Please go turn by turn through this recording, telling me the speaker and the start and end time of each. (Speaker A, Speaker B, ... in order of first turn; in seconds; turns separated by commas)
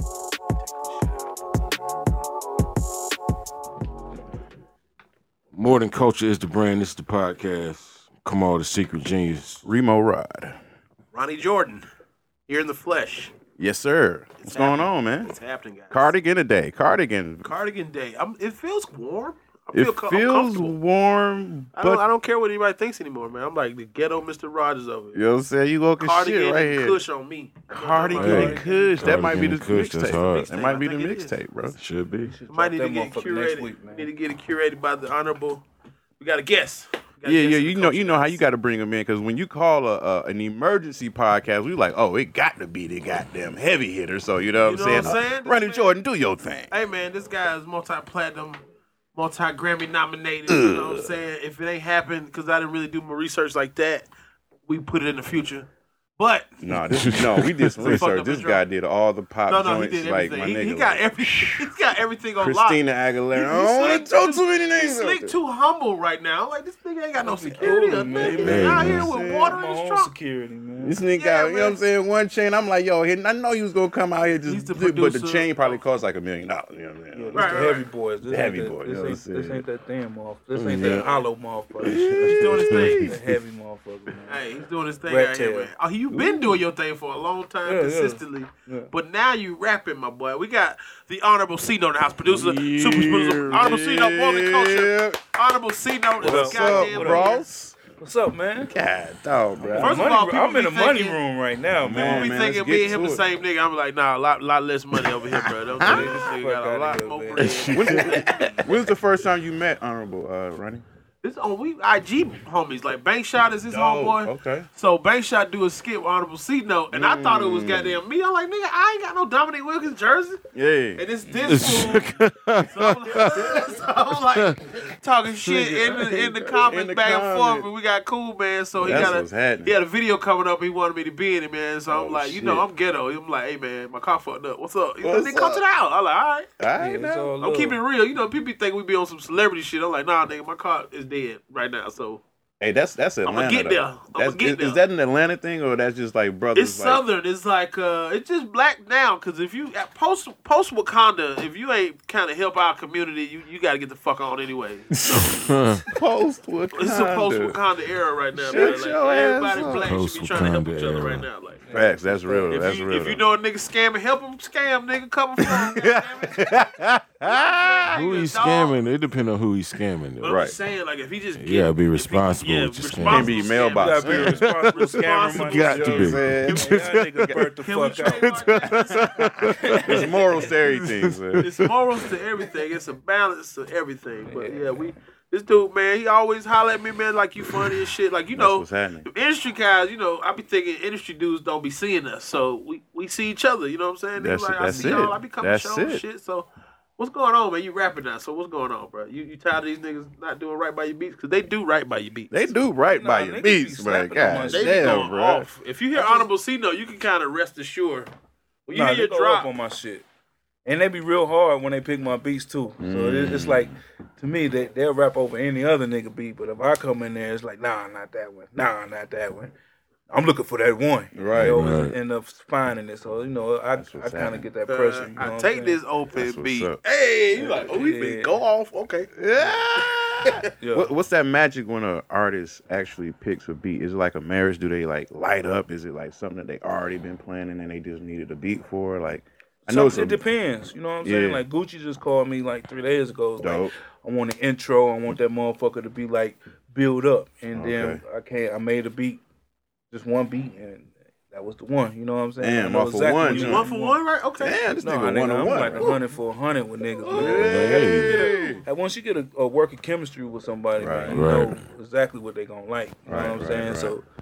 Speaker A: 0.6-1.3, Speaker B: 5.5-9.7, Speaker C: 9.6-10.6, Speaker A: 11.1-11.8, Speaker A: 12.5-13.3, Speaker C: 13.6-15.3, Speaker A: 14.4-16.1, Speaker C: 15.9-17.6, Speaker A: 17.4-20.7, Speaker C: 19.7-22.0, Speaker A: 21.8-25.2, Speaker C: 25.1-27.0, Speaker A: 26.0-28.8, Speaker C: 27.7-31.8, Speaker B: 28.2-30.5, Speaker D: 28.3-29.5, Speaker A: 30.3-31.4, Speaker B: 31.8-32.3, Speaker D: 32.2-34.1, Speaker A: 32.5-35.6, Speaker A: 36.2-38.4, Speaker C: 37.2-46.7, Speaker A: 44.6-45.9, Speaker A: 46.7-48.6, Speaker A: 49.1-54.1, Speaker C: 50.5-51.2, Speaker A: 54.7-56.5, Speaker C: 56.6-61.7, Speaker B: 56.7-58.0, Speaker A: 57.7-58.6, Speaker A: 59.5-62.8, Speaker C: 62.4-65.4, Speaker A: 63.3-70.1, Speaker D: 67.2-71.0, Speaker C: 68.1-69.5, Speaker B: 68.4-69.1, Speaker C: 70.8-77.7, Speaker A: 71.1-71.8, Speaker A: 74.5-75.8, Speaker D: 77.1-82.0, Speaker A: 77.3-77.9, Speaker C: 78.3-79.6, Speaker B: 80.5-81.1, Speaker A: 80.8-81.2, Speaker C: 81.8-83.2, Speaker B: 81.8-83.2, Speaker A: 82.2-83.0, Speaker D: 83.0-84.4, Speaker A: 84.3-97.4, Speaker D: 85.1-85.7, Speaker C: 86.1-86.6, Speaker D: 87.7-88.9, Speaker B: 92.2-93.8, Speaker C: 93.5-95.2, Speaker D: 96.2-97.3, Speaker C: 96.2-97.8, Speaker D: 98.0-98.7, Speaker C: 98.7-100.1, Speaker D: 99.6-102.4, Speaker A: 99.8-101.2, Speaker C: 101.8-103.3, Speaker A: 101.9-108.8, Speaker C: 105.2-106.3, Speaker D: 105.8-108.6, Speaker B: 107.4-108.2, Speaker C: 107.7-110.8, Speaker A: 111.2-120.4, Speaker C: 113.7-114.7, Speaker C: 116.9-118.0, Speaker C: 120.5-121.0, Speaker A: 121.0-136.5, Speaker D: 121.3-121.7, Speaker B: 121.5-123.7, Speaker C: 123.4-123.8, Speaker B: 124.3-124.6, Speaker C: 125.5-127.7, Speaker C: 128.8-129.8, Speaker C: 131.9-132.7, Speaker C: 135.0-135.6, Speaker C: 136.6-137.3, Speaker D: 136.8-137.8, Speaker A: 137.4-142.2, Speaker C: 142.6-147.0, Speaker A: 143.2-144.8, Speaker A: 146.6-155.4, Speaker B: 155.3-155.8, Speaker C: 155.9-157.6, Speaker A: 156.8-161.6, Speaker C: 158.3-159.9, Speaker D: 158.5-158.8, Speaker B: 159.6-161.3, Speaker D: 161.7-162.6, Speaker C: 161.7-163.2, Speaker A: 162.5-166.7, Speaker C: 165.6-167.9, Speaker A: 167.2-168.8, Speaker B: 167.9-170.4, Speaker A: 170.2-176.2, Speaker C: 170.2-170.6, Speaker B: 171.4-173.3, Speaker C: 173.0-174.4, Speaker D: 173.7-178.4, Speaker B: 174.1-177.5, Speaker C: 175.7-176.7, Speaker A: 177.6-179.0, Speaker B: 178.0-180.0, Speaker D: 179.6-180.5, Speaker C: 179.8-181.5, Speaker B: 180.6-181.7, Speaker A: 181.4-202.5, Speaker D: 184.3-184.9, Speaker C: 188.3-189.1, Speaker C: 194.2-196.0, Speaker D: 194.7-195.2, Speaker C: 202.3-205.5, Speaker D: 202.9-205.1, Speaker A: 204.5-208.1, Speaker D: 205.9-206.3, Speaker A: 208.7-209.5, Speaker D: 208.7-210.1, Speaker D: 210.7-219.5, Speaker C: 212.8-213.8, Speaker D: 220.1-225.8, Speaker C: 221.1-221.6, Speaker B: 221.4-221.9, Speaker C: 223.8-224.5, Speaker A: 224.7-229.1, Speaker C: 226.1-226.8, Speaker D: 227.3-228.4, Speaker C: 229.2-240.2, Speaker D: 230.5-230.9, Speaker D: 239.7-249.2, Speaker C: 241.0-241.4, Speaker C: 243.4-243.7, Speaker C: 247.5-248.0, Speaker D: 249.9-254.0, Speaker C: 252.4-253.7, Speaker A: 253.3-254.6, Speaker C: 254.4-256.0, Speaker D: 254.8-264.0, Speaker C: 257.0-258.6, Speaker B: 257.2-258.2, Speaker A: 258.0-258.5, Speaker C: 260.8-261.3, Speaker B: 261.1-261.6, Speaker C: 263.1-263.9